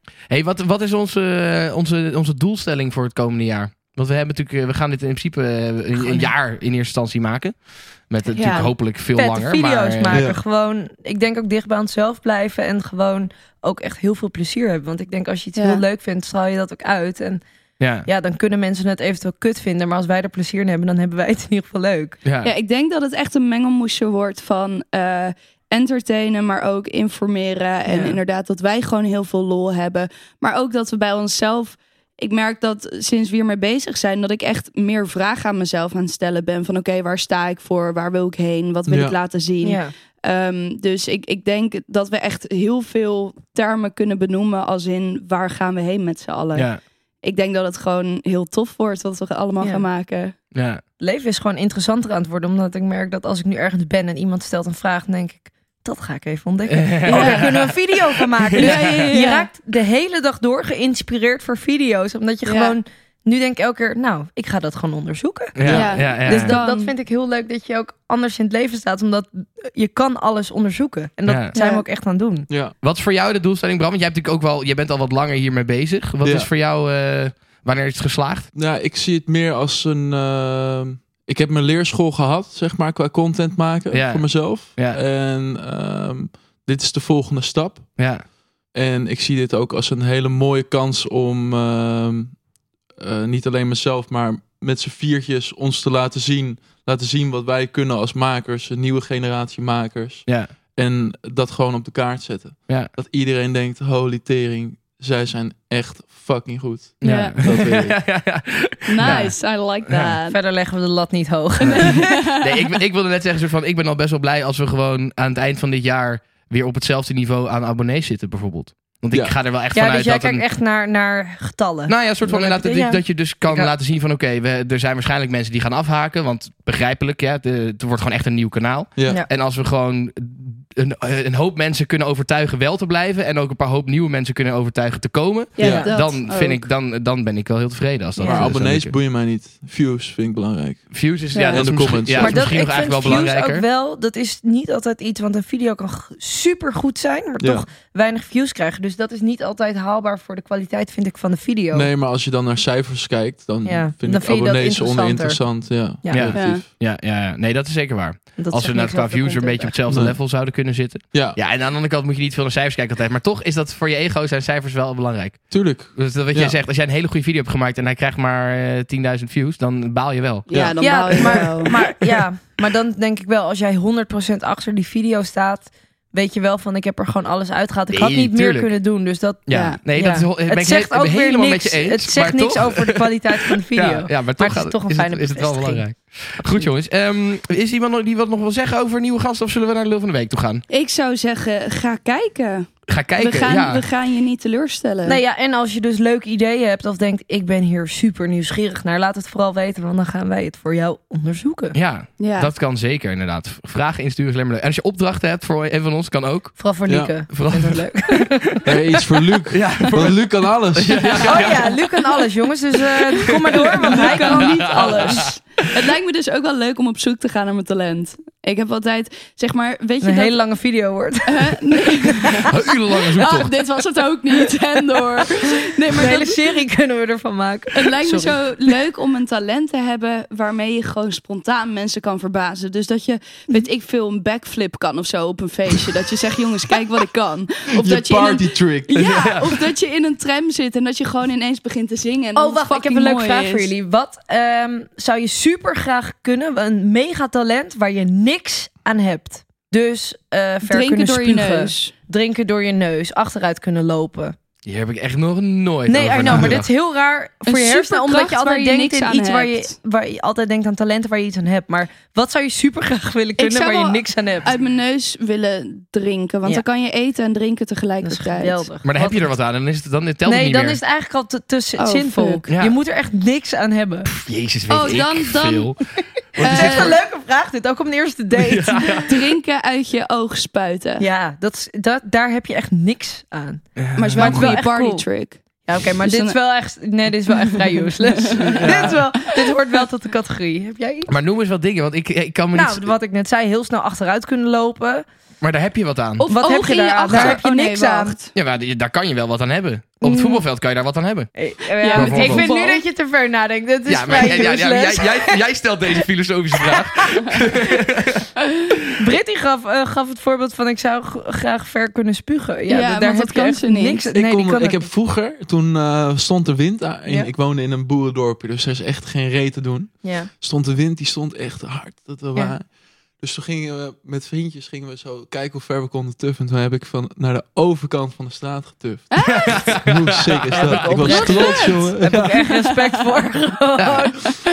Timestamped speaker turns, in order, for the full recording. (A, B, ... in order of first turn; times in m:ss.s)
0:00.3-0:07.6 A
0:06.0-0:06.3 B
0:08.1-0:10.2 A
0:08.3-0:08.7 C
0:09.1-0:17.4 B
0:10.1-0:10.4 D
0:15.6-0:15.8 C
0:17.8-0:18.1 A
0:18.0-0:22.2 B
0:22.2-0:22.5 A
0:22.4-0:46.7 C
0:27.9-0:28.2 B
0:38.9-0:39.2 D
0:39.6-0:39.9 B
0:46.5-0:46.8 A
0:47.2-0:50.3 C
0:49.6-0:49.8 B
0:50.5-0:50.8 A
0:51.0-1:12.5 B
0:56.7-0:59.1 A
0:57.0-0:57.7 C
0:58.5-0:59.5 C
1:02.4-1:02.8 C
1:05.6-1:06.6 A
1:05.6-1:05.9 D
1:05.7-1:06.9 C
1:11.2-1:11.5 A
1:11.6-1:11.8 C
1:12.8-1:18.5 A
1:16.2-1:16.5 D
1:18.5-1:28.0 D
1:23.9-1:25.0 A
1:28.0-1:28.2 A
1:28.7-1:32.4 D
1:33.0-1:48.0 D
1:47.0-1:49.3 A
1:47.0-1:47.4 C
1:48.9-1:50.4 C
1:49.9-1:50.2 A
1:50.3-1:52.0 B
1:51.6-1:52.5 C
1:51.6-2:00.4 A
1:59.7-2:03.7 B
2:01.9-2:19.0 A
2:09.0-2:09.2 D
2:15.6-2:16.7 C
2:15.6-2:15.9 D
2:15.6-2:15.9 B
2:18.2-2:22.5 D
2:20.9-2:23.6 A
2:21.3-2:21.6 C
2:22.1-2:31.9 B
2:27.4-2:27.6 D
2:31.7-2:36.6 D
2:33.6-2:35.4 B
2:36.0-2:36.3 B
2:36.1-2:50.5 A
2:36.4-2:36.6 C
2:38.4-2:39.8 B
2:39.9-2:40.2 D
2:45.5-2:46.6 D
2:50.5-2:51.7 C
2:50.5-2:51.5 D
2:50.8-3:05.8 B
2:57.9-2:58.7 A
2:59.4-3:10.6 A
2:59.5-2:59.8 C
3:10.7-3:15.2 C
3:12.9-3:13.8 A
3:15.0-3:21.7 B
3:21.7-3:26.6 A
3:22.2-3:22.5 C
3:26.6-3:28.6 B
3:26.9-3:27.1 D
3:27.2-3:28.4 A
3:28.6-3:31.2 D
3:29.5-3:31.9 A
3:31.2-3:35.3 B
3:33.3-3:35.1 A
3:33.5-3:40.4 C
3:40.0-3:42.1 B
3:41.3-3:46.4 C
3:42.4-3:43.6 A
3:45.8-3:48.4 B
3:47.7-4:03.7 C
3:57.8-3:58.9 D
3:58.9-3:59.7 A
4:02.4-4:14.4 B
4:10.6-4:11.9 C
4:14.6-4:16.7 A
4:15.9-4:24.5 B
4:17.4-4:19.7 C
4:23.4-4:28.6 C
4:28.0-4:29.3 B
4:28.8-4:30.8 A
4:30.2-4:34.1 B
4:31.8-4:32.4 C
4:32.5-4:32.8 A
4:34.0-4:35.8 A
4:34.7-4:35.7 C
4:36.3-4:37.0 A
4:36.4-4:37.0 C
4:36.4-4:39.0 B
4:38.3-4:39.1 A
4:39.0-4:41.0 C
4:41.0-4:45.0 B
4:43.8-4:44.6 A
4:44.0-4:46.4 C
4:45.6-4:51.2 B
4:48.4-4:49.5 C
4:48.4-4:48.9 D
4:51.1-4:52.9 A
4:52.5-4:55.0 B
4:55.4-4:56.3 A
4:56.2-4:58.3 C
4:56.3-4:58.2 B
4:57.1-4:57.4 A
4:58.3-5:01.3 A
5:00.0-5:00.4 B
5:01.4-5:05.4 B
5:01.8-5:02.8 C
5:01.9-5:02.5 A
5:03.9-5:08.2 A
5:07.1-5:07.4 C
5:08.4-5:08.8 C
5:09.0-5:14.9 B
5:12.7-5:14.0 C
5:14.1-5:22.7 D
5:20.0-5:20.3 B
5:23.2-5:29.1 D
5:29.1-5:29.8 C
5:29.3-5:30.7 A
5:29.8-5:32.3 D
5:30.5-5:34.2 B
5:30.9-5:31.9 C
5:33.8-5:34.1 A